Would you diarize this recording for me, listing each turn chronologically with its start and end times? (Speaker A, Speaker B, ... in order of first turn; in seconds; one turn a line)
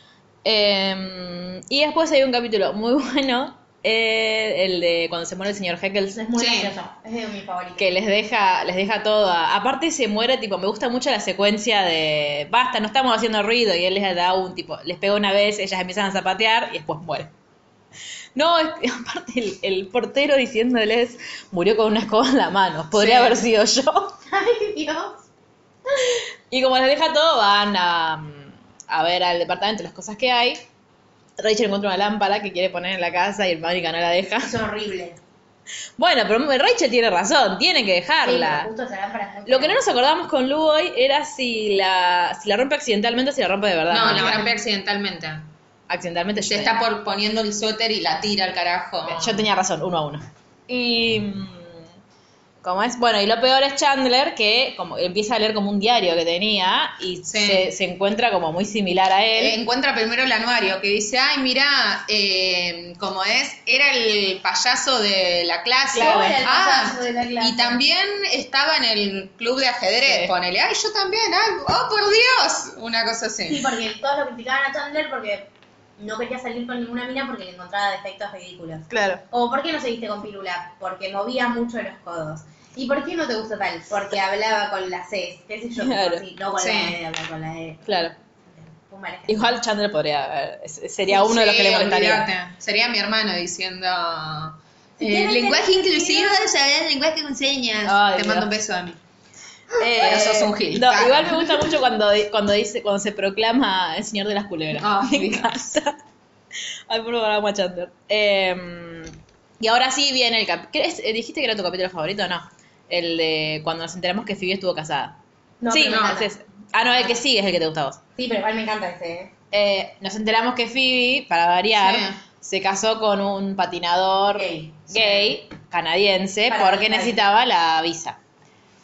Speaker A: 0.4-6.2
Speaker B: 6.1-7.9
Speaker C: 6.3-6.7
Speaker A: 7.8-17.3
Speaker A: 18.4-24.1
Speaker C: 23.0-23.3
Speaker B: 24.3-25.2
Speaker A: 26.5-30.6
Speaker A: 31.4-34.5
Speaker B: 34.4-35.2
Speaker A: 36.0-38.7
Speaker B: 38.2-39.9
Speaker A: 39.5-44.5
Speaker C: 43.9-45.5
Speaker B: 44.1-44.4
Speaker A: 45.9-46.7
Speaker C: 46.4-49.4
Speaker A: 49.0-51.8
Speaker A: 52.6-59.6
Speaker C: 57.3-57.7
Speaker C: 59.4-73.7
Speaker A: 65.9-66.4
Speaker B: 65.9-67.8
Speaker A: 70.0-70.3
Speaker B: 73.5-87.8
Speaker A: 78.9-79.2
Speaker A: 85.8-86.2
Speaker C: 86.6-87.0
Speaker A: 87.9-88.1
Speaker B: 88.6-89.5
Speaker A: 89.3-92.3
Speaker C: 91.1-99.0
Speaker B: 95.0-96.4
Speaker A: 97.8-98.5
Speaker A: 99.8-106.0
Speaker C: 99.9-101.6
Speaker C: 104.8-105.7
Speaker A: 106.9-115.2
Speaker B: 115.6-116.3
Speaker A: 115.7-118.0
Speaker C: 115.9-116.1
Speaker B: 118.2-119.3
Speaker A: 119.5-128.2
Speaker C: 121.8-122.2
Speaker B: 124.3-125.4
Speaker B: 126.5-127.3